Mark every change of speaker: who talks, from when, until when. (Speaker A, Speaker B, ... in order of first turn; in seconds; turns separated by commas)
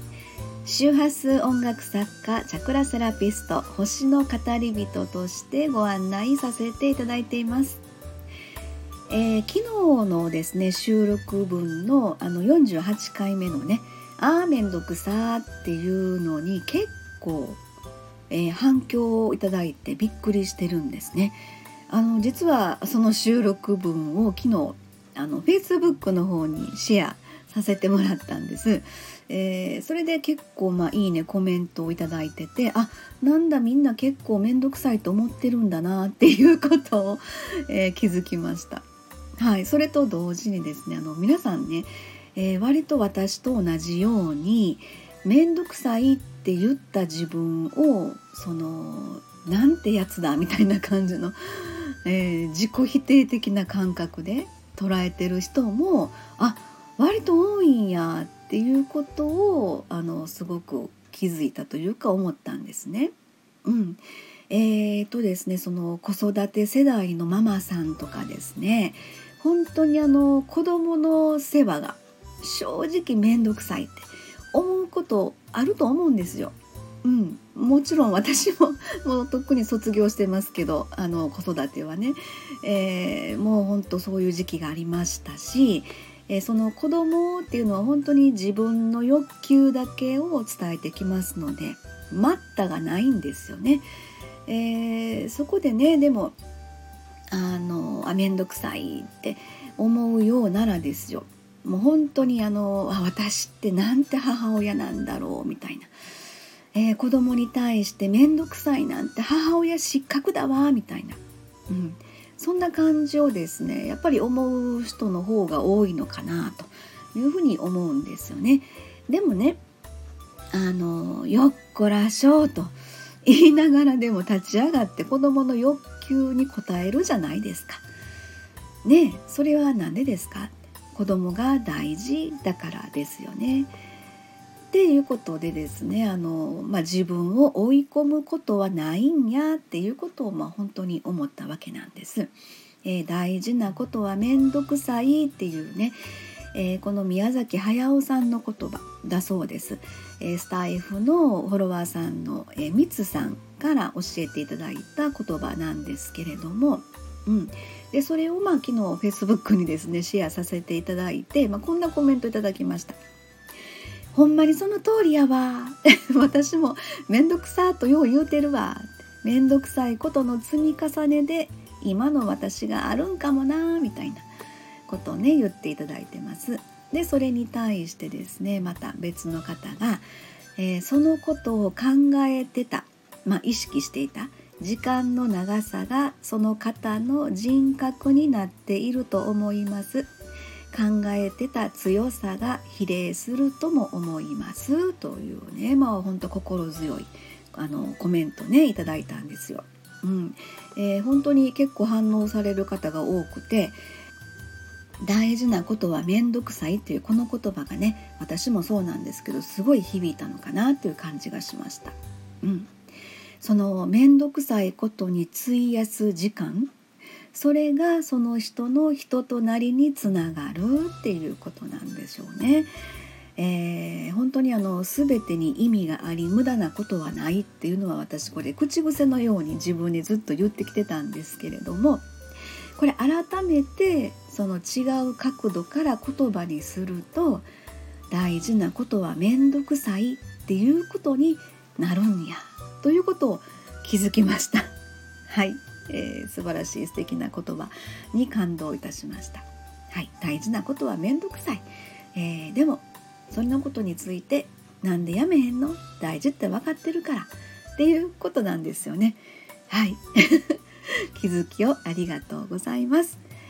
Speaker A: 0.6-7.8, Speaker A: 9.1-17.6, Speaker A: 18.3-21.4, Speaker A: 21.9-38.8, Speaker A: 39.4-63.1, Speaker A: 63.6-93.8, Speaker A: 94.5-96.4, Speaker A: 97.3-105.9, Speaker A: 106.7-119.6, Speaker A: 120.5-127.8, Speaker A: 128.8-133.7, Speaker A: 134.7-146.0, Speaker A: 146.5-163.0, Speaker A: 164.1-174.3, Speaker A: 174.9-180.1, Speaker A: 180.6-190.1, Speaker A: 190.7-203.8, Speaker A: 205.0-212.7, Speaker A: 213.4-216.7, Speaker A: 217.3-222.7, Speaker A: 223.4-232.1, Speaker A: 232.8-237.5, Speaker A: 238.1-244.7, Speaker A: 245.3-260.6, Speaker A: 261.1-263.2